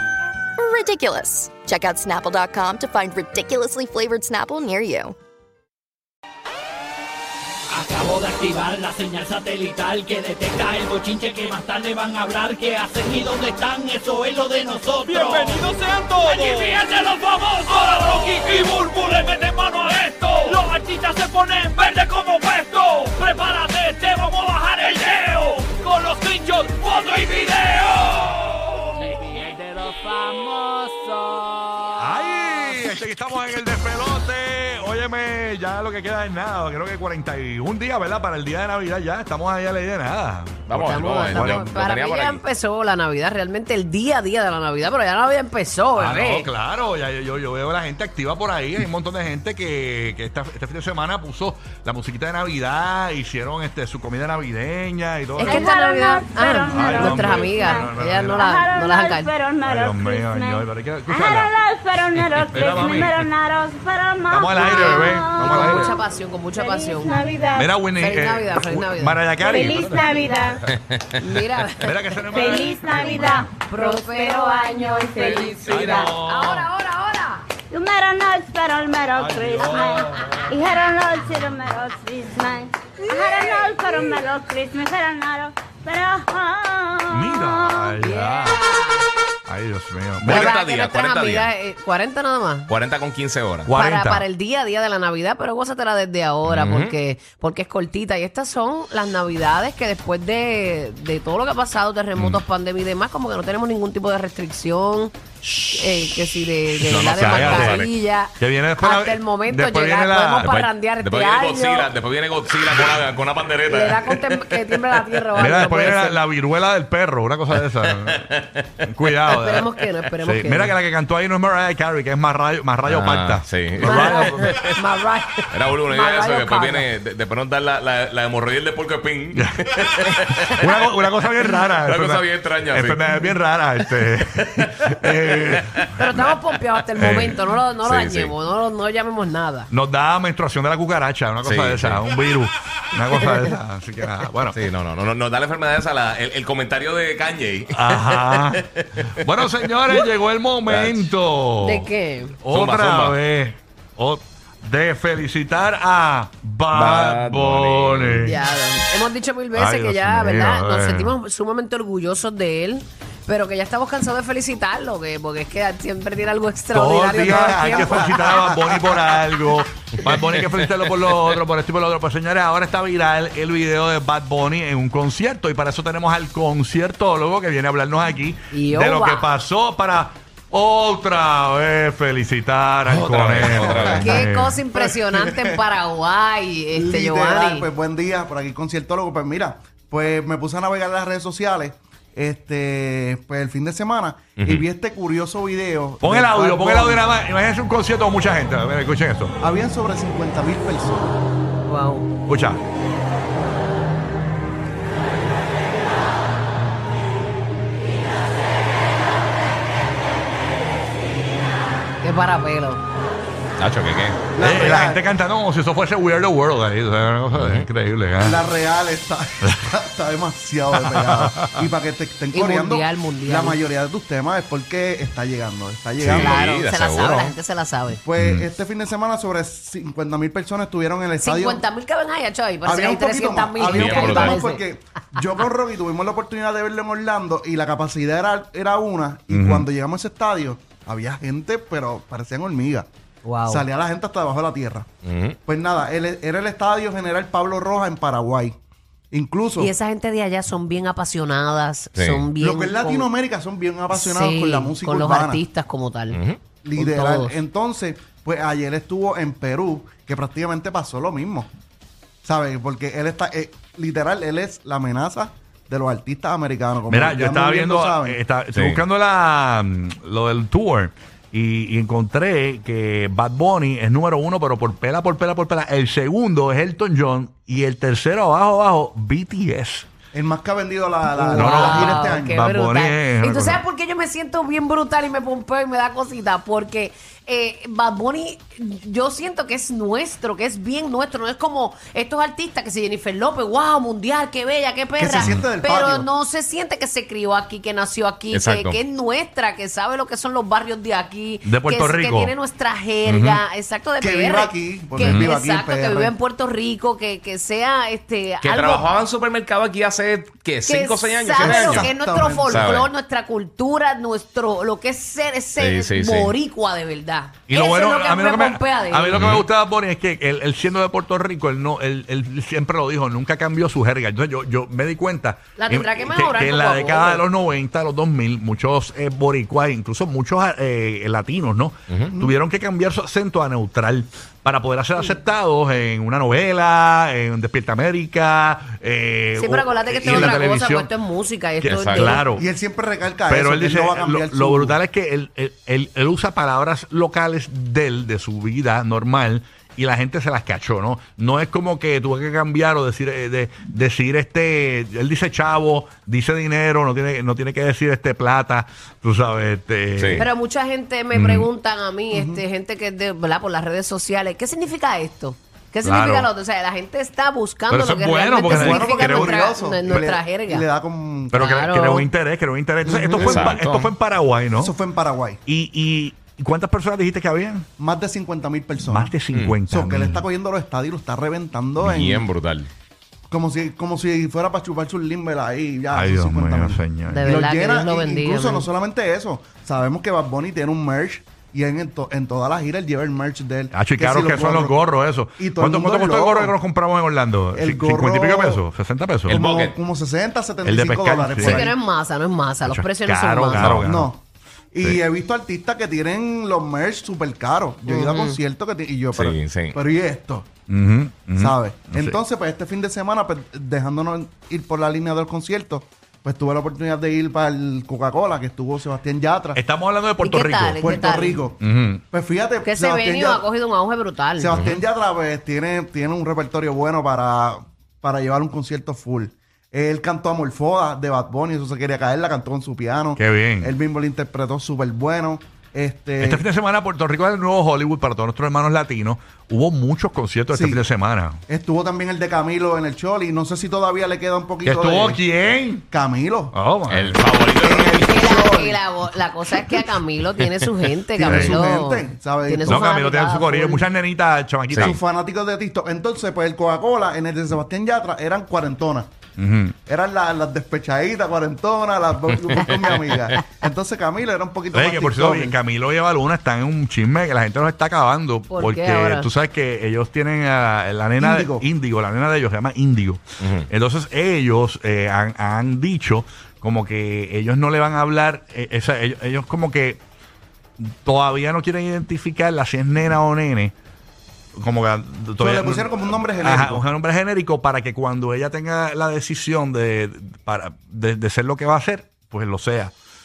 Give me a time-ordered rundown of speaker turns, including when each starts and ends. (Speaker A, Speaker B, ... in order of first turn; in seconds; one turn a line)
Speaker A: 0.6-5.1
Speaker B: 7.7-15.6
Speaker C: 15.0-16.9
Speaker B: 16.2-31.9
Speaker C: 32.0-41.7
Speaker D: 40.7-42.4
Speaker E: 40.7-46.5
Speaker C: 45.9-55.7
Speaker E: 55.4-59.3
Speaker F: 55.4-65.9
Speaker C: 56.7-58.5
Speaker C: 59.6-61.5
Speaker C: 62.5-63.2
Speaker C: 64.3-65.9
Speaker E: 64.6-67.2
Speaker D: 65.4-65.9
Speaker F: 66.5-67.7
Speaker C: 67.5-70.3
Speaker E: 68.0-70.3
Speaker F: 69.4-70.6
Speaker D: 70.7-71.1
Speaker E: 71.2-72.6
Speaker C: 71.8-73.5
Speaker F: 72.3-76.1
Speaker E: 73.7-77.5
Speaker D: 75.2-76.1
Speaker C: 75.7-76.7
Speaker F: 77.7-87.8
Speaker C: 79.1-80.6
Speaker C: 87.1-88.6
Speaker E: 88.0-89.0
Speaker C: 89.5-90.5
Speaker E: 90.2-92.7
Speaker D: 90.2-91.5
Speaker D: 92.7-93.7
Speaker C: 93.7-94.2
Speaker E: 93.7-111.9
Speaker D: 96.4-96.9
Speaker D: 102.2-102.4
Speaker C: 106.8-107.8
Speaker D: 106.9-107.9
Speaker C: 108.4-110.7
Speaker D: 110.4-115.2
Speaker E: 113.7-116.2
Speaker C: 115.4-118.3
Speaker D: 117.9-119.4
Speaker C: 118.8-124.5
Speaker E: 119.3-120.8
Speaker D: 122.8-124.7
Speaker E: 123.8-126.9
Speaker D: 125.5-130.6
Speaker C: 130.5-135.9
Speaker D: 131.4-133.2
Speaker D: 134.0-136.2
Speaker E: 135.9-139.7
Speaker C: 137.0-137.4
Speaker D: 137.8-138.3
Speaker C: 139.7-144.6
Speaker D: 141.4-142.0
Speaker D: 144.5-149.1
Speaker C: 147.7-148.6
Speaker C: 149.1-151.9
Speaker D: 150.7-151.1
Speaker E: 151.6-152.3
Speaker C: 152.4-158.5
Speaker D: 152.5-153.2
Speaker D: 156.7-158.3
Speaker E: 158.2-168.3
Speaker C: 159.5-161.2
Speaker C: 166.7-184.6
Speaker G: 167.2-169.4
Speaker D: 170.0-171.0
Speaker E: 178.5-179.3
Speaker D: 182.8-184.2
Speaker G: 183.6-184.2
Speaker E: 184.0-187.7
Speaker G: 184.7-185.6
Speaker G: 186.7-197.1
Speaker D: 194.4-194.7
Speaker C: 196.0-199.4
Speaker G: 199.4-201.1
Speaker E: 201.6-202.1
Speaker C: 202.3-202.6
Speaker E: 212.0-212.8
Speaker D: 213.6-214.2
Speaker G: 214.3-215.1
Speaker C: 214.4-218.4
Speaker D: 217.3-217.7
Speaker G: 218.2-226.4
Speaker C: 220.7-221.5
Speaker E: 222.3-223.6
Speaker D: 226.0-227.3
Speaker E: 226.1-228.0
Speaker G: 228.0-231.6
Speaker C: 228.2-228.4
Speaker E: 231.2-234.6
Speaker G: 232.6-242.9
Speaker D: 233.6-234.4
Speaker C: 239.3-239.7
Speaker E: 243.2-243.7
Speaker G: 243.5-244.9
Speaker D: 245.0-245.4
Speaker G: 245.4-248.6
Speaker G: 249.1-249.7
Speaker E: 249.6-253.1
Speaker D: 251.9-252.3
Speaker G: 252.4-255.4
Speaker E: 253.9-256.2
Speaker D: 256.1-256.4
Speaker G: 256.6-261.5
Speaker E: 256.8-257.4
Speaker G: 262.2-268.2
Speaker C: 266.9-279.9
Speaker D: 268.5-268.8
Speaker G: 280.1-282.3
Speaker E: 281.2-308.9
Speaker C: 281.3-283.6
Speaker G: 295.0-296.1
Speaker D: 298.3-298.8
Speaker C: 301.4-302.3
Speaker C: 303.0-303.4
Speaker G: 304.0-306.1
Speaker C: 305.0-305.3
Speaker D: 308.4-311.9
Speaker E: 310.6-319.2
Speaker G: 311.4-312.7
Speaker D: 312.5-312.9
Speaker D: 315.6-316.3
Speaker C: 317.5-340.9
Speaker D: 319.1-319.4
Speaker E: 325.6-327.2
Speaker D: 331.9-332.2
Speaker E: 339.4-342.2
Speaker C: 341.6-342.4
Speaker D: 341.7-342.1
Speaker G: 342.3-344.8
Speaker C: 343.3-360.3
Speaker D: 360.0-360.2
Speaker E: 360.2-370.7
Speaker C: 361.1-361.5
Speaker G: 362.1-362.4
Speaker C: 365.8-366.3
Speaker C: 367.7-369.4
Speaker G: 368.4-371.4
Speaker C: 371.3-374.8
Speaker E: 371.3-372.1
Speaker G: 372.8-373.6
Speaker D: 373.2-373.9
Speaker G: 374.6-375.4
Speaker C: 375.4-377.7
Speaker G: 377.8-379.1
Speaker C: 378.8-380.3
Speaker D: 379.3-379.6
Speaker G: 379.7-382.3
Speaker D: 381.8-382.7
Speaker G: 383.3-394.8
Speaker C: 385.9-387.2
Speaker E: 387.1-388.7
Speaker C: 393.7-399.4
Speaker G: 395.4-396.5
Speaker G: 397.5-398.6
Speaker D: 399.3-399.8
Speaker G: 399.3-401.7
Speaker C: 400.6-401.7
Speaker E: 401.4-403.7
Speaker C: 402.6-404.1
Speaker D: 403.6-403.8
Speaker G: 403.8-410.5
Speaker E: 407.9-408.4
Speaker D: 409.1-409.8
Speaker C: 410.7-412.2
Speaker G: 411.4-419.6
Speaker C: 419.5-420.9
Speaker E: 420.2-421.4
Speaker G: 420.8-423.4
Speaker C: 421.6-422.0
Speaker E: 422.6-424.5
Speaker G: 424.4-436.4
Speaker D: 424.5-424.8
Speaker C: 433.1-433.7
Speaker C: 436.2-441.4
Speaker G: 440.5-440.8
Speaker G: 441.5-445.2
Speaker C: 444.6-445.9
Speaker G: 445.9-446.5
Speaker C: 446.5-447.2
Speaker D: 446.9-448.1
Speaker G: 447.6-448.8
Speaker E: 448.0-453.9
Speaker G: 451.1-452.8
Speaker C: 451.3-451.6
Speaker C: 452.6-455.0
Speaker D: 454.7-455.0
Speaker G: 454.7-459.1
Speaker C: 459.4-459.7
Speaker G: 459.9-465.6
Speaker D: 462.4-463.4
Speaker C: 464.7-480.0
Speaker E: 468.5-469.3
Speaker G: 471.2-471.6
Speaker D: 473.4-473.7
Speaker C: 480.8-483.7
Speaker C: 484.6-492.9
Speaker G: 485.4-486.8